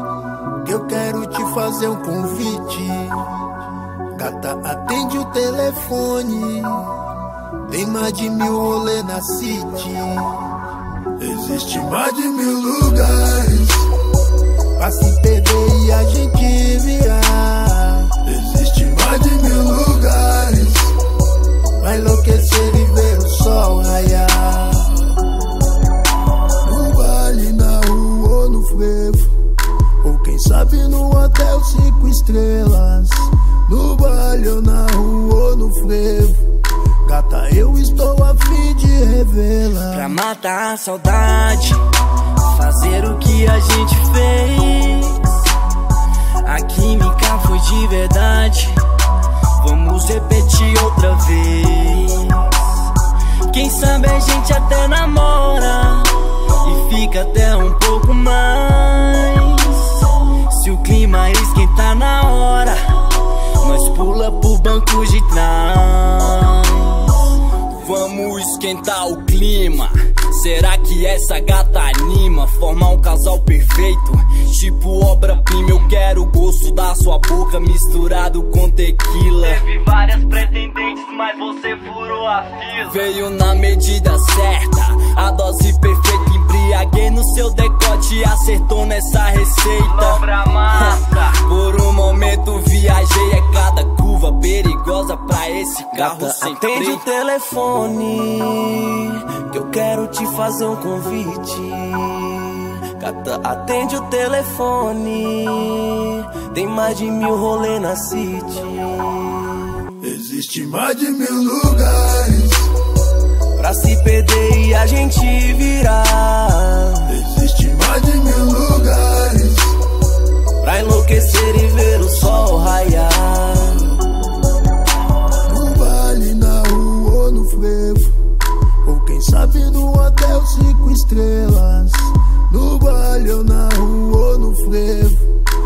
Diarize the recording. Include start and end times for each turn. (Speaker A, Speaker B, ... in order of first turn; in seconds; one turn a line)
Speaker A: 0.6-3.2
Speaker A: 4.1-6.9
Speaker A: 7.7-10.4
Speaker A: 11.2-13.9
Speaker A: 14.8-20.9
Speaker A: 21.8-25.1
Speaker A: 26.6-29.3
Speaker A: 30.0-36.4
Speaker A: 37.0-40.1
Speaker B: 39.9-41.8
Speaker B: 42.4-45.5
Speaker B: 46.4-48.8
Speaker B: 49.5-52.8
Speaker B: 53.5-97.0
Speaker C: 95.9-109.9
Speaker A: 110.0-112.7
Speaker C: 113.5-117.2
Speaker A: 117.1-119.8
Speaker C: 120.6-123.9
Speaker A: 125.5-128.1
Speaker A: 128.8-135.3